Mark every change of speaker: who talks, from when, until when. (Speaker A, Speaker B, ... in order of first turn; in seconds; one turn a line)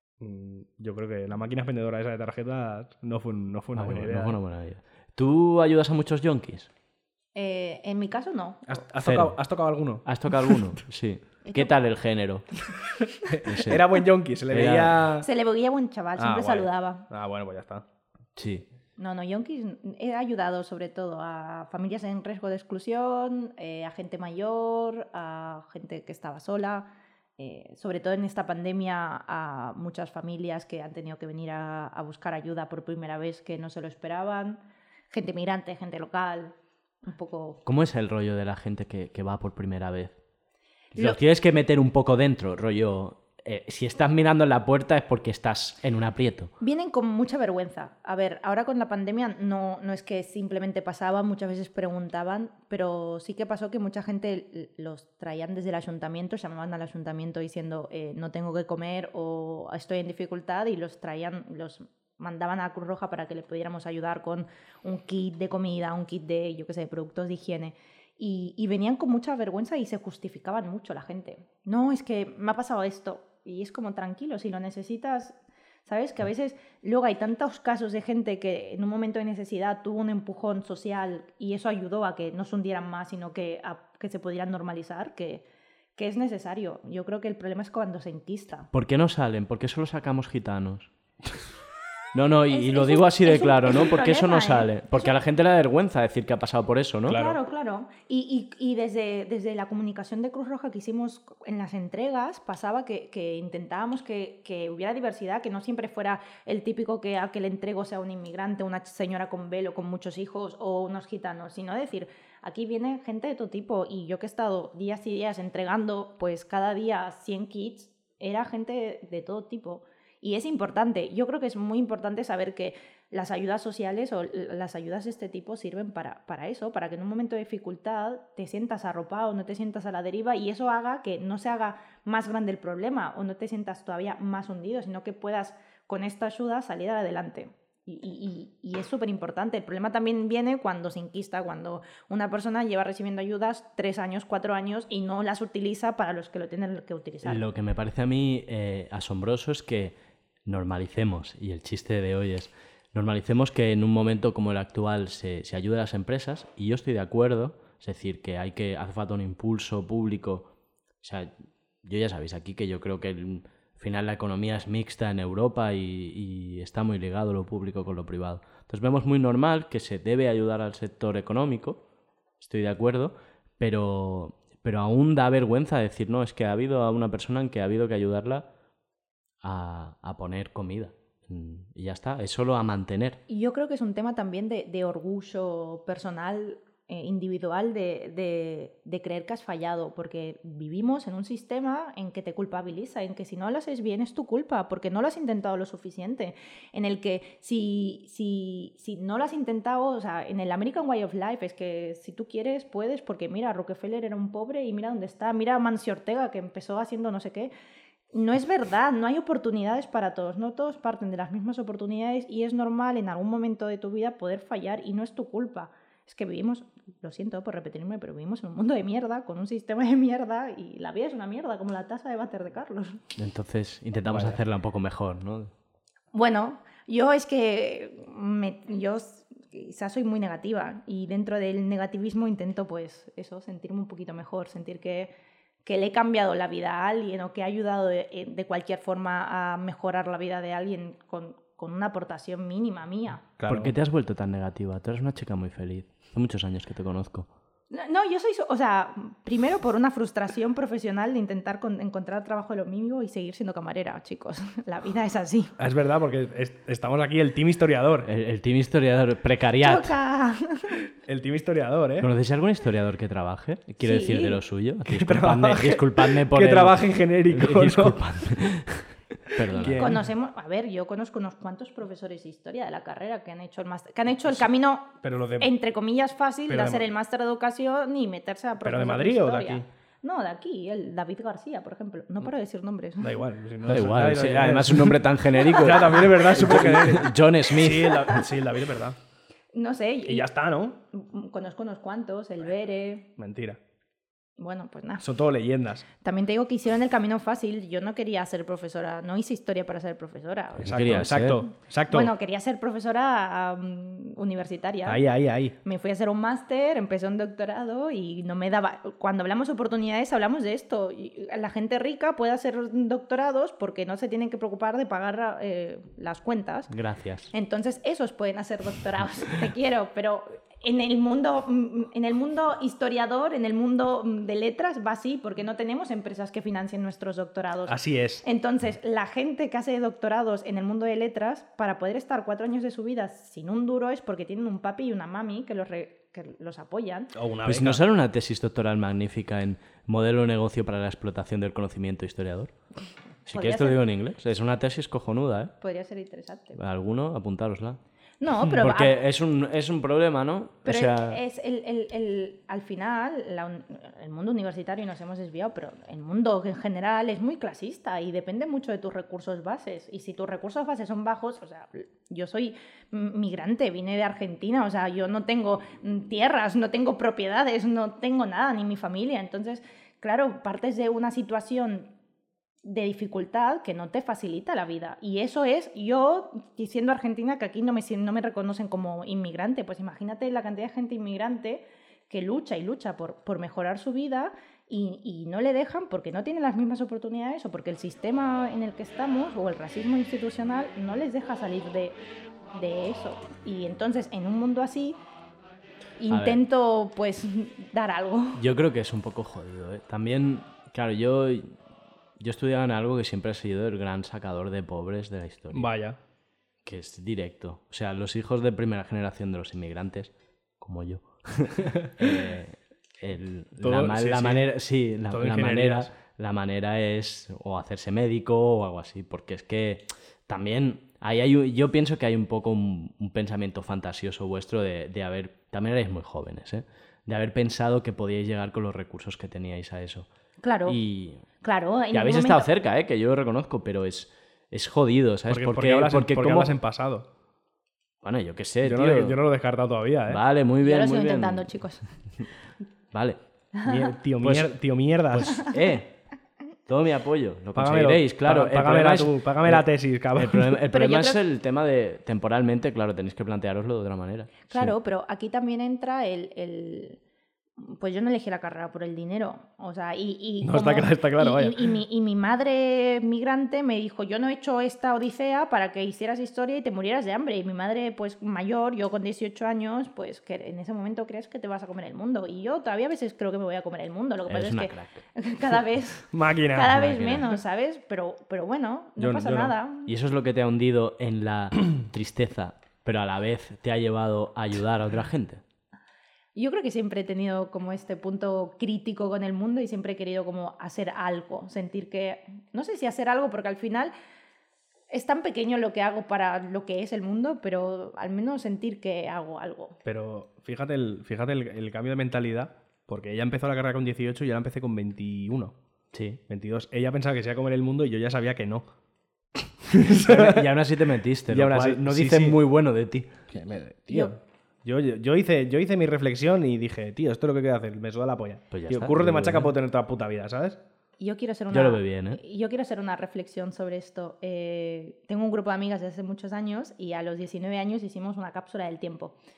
Speaker A: 0.2-4.4
Speaker B: 3.8-6.7
Speaker C: 7.3-8.8
Speaker A: 8.7-10.0
Speaker B: 9.0-9.3
Speaker B: 10.0-12.5
Speaker C: 11.5-11.7
Speaker A: 13.3-15.3
Speaker B: 13.5-13.8
Speaker B: 14.5-15.0
Speaker C: 15.2-17.1
Speaker A: 16.2-17.8
Speaker B: 18.4-18.6
Speaker C: 19.0-34.6
Speaker C: 35.1-37.6
Speaker B: 37.6-40.1
Speaker B: 41.0-46.5
Speaker C: 46.6-85.4
Speaker C: 86.0-88.7
Speaker B: 88.7-90.9
Speaker B: 92.1-97.2
Speaker C: 92.5-95.1
Speaker A: 97.1-97.4
Speaker C: 97.1-147.4
Speaker B: 147.2-160.5
Speaker B: 161.0-161.3
Speaker B: 161.8-171.8
Speaker B: 172.4-178.5
Speaker B: 179.4-183.2
Speaker C: 183.3-207.5
Speaker C: 208.1-223.0
Speaker B: 223.2-225.5
Speaker A: 224.1-224.4
Speaker C: 226.1-235.1
Speaker C: 235.6-243.2
Speaker A: 243.4-243.7
Speaker B: 243.5-247.3
Speaker C: 247.7-255.5
Speaker A: 255.6-258.1
Speaker B: 258.1-259.9
Speaker C: 259.6-260.8
Speaker A: 261.0-262.1
Speaker B: 262.0-269.9
Speaker C: 263.8-264.4
Speaker A: 264.9-268.0
Speaker A: 269.5-270.0
Speaker C: 269.6-283.2
Speaker A: 275.0-275.5
Speaker A: 276.5-276.9
Speaker A: 278.6-279.7
Speaker A: 283.0-289.0
Speaker B: 283.7-288.2
Speaker C: 289.5-290.3
Speaker A: 290.0-290.8
Speaker C: 290.9-293.1
Speaker A: 293.2-293.6
Speaker C: 294.4-295.0
Speaker A: 295.0-295.9
Speaker C: 296.0-301.0
Speaker B: 300.6-301.4
Speaker A: 300.6-302.1
Speaker C: 301.9-305.0
Speaker A: 304.8-305.5
Speaker C: 305.6-316.7
Speaker B: 316.7-317.3
Speaker C: 317.3-337.1
Speaker A: 327.7-328.2
Speaker A: 337.1-337.8
Speaker B: 337.4-342.5
Speaker B: 343.2-345.5
Speaker C: 343.3-343.8
Speaker C: 345.6-346.6
Speaker B: 346.6-347.8
Speaker C: 348.2-349.0
Speaker B: 348.6-351.2
Speaker C: 350.6-371.9
Speaker C: 372.6-392.0
Speaker C: 392.5-395.0
Speaker C: 396.0-398.4
Speaker B: 396.1-396.4
Speaker B: 398.4-401.5
Speaker B: 402.2-405.7
Speaker A: 405.5-406.0
Speaker B: 406.6-430.1
Speaker A: 413.6-414.5
Speaker A: 415.1-415.9
Speaker C: 430.4-430.8
Speaker B: 430.6-431.2
Speaker C: 431.4-432.5
Speaker B: 431.9-436.5
Speaker A: 435.3-437.1
Speaker B: 438.0-439.2
Speaker A: 438.6-440.2
Speaker B: 440.1-441.5
Speaker C: 440.6-441.8
Speaker B: 442.9-443.2
Speaker A: 443.6-445.4
Speaker B: 444.2-444.5
Speaker B: 445.1-446.0
Speaker B: 446.7-454.7
Speaker A: 447.5-450.6
Speaker C: 450.7-451.2
Speaker C: 454.5-457.0
Speaker C: 457.6-479.9
Speaker A: 460.4-461.7
Speaker B: 474.3-475.0
Speaker A: 476.1-477.0
Speaker B: 476.7-477.2
Speaker A: 479.0-479.5
Speaker B: 479.9-485.4
Speaker C: 486.3-493.9
Speaker C: 494.9-499.8
Speaker A: 499.8-505.6
Speaker B: 505.9-506.2
Speaker A: 506.3-508.6
Speaker A: 509.6-510.5
Speaker B: 509.9-513.1
Speaker A: 511.3-512.4
Speaker A: 513.3-520.6
Speaker B: 518.5-519.5
Speaker C: 521.0-529.1
Speaker B: 521.5-522.2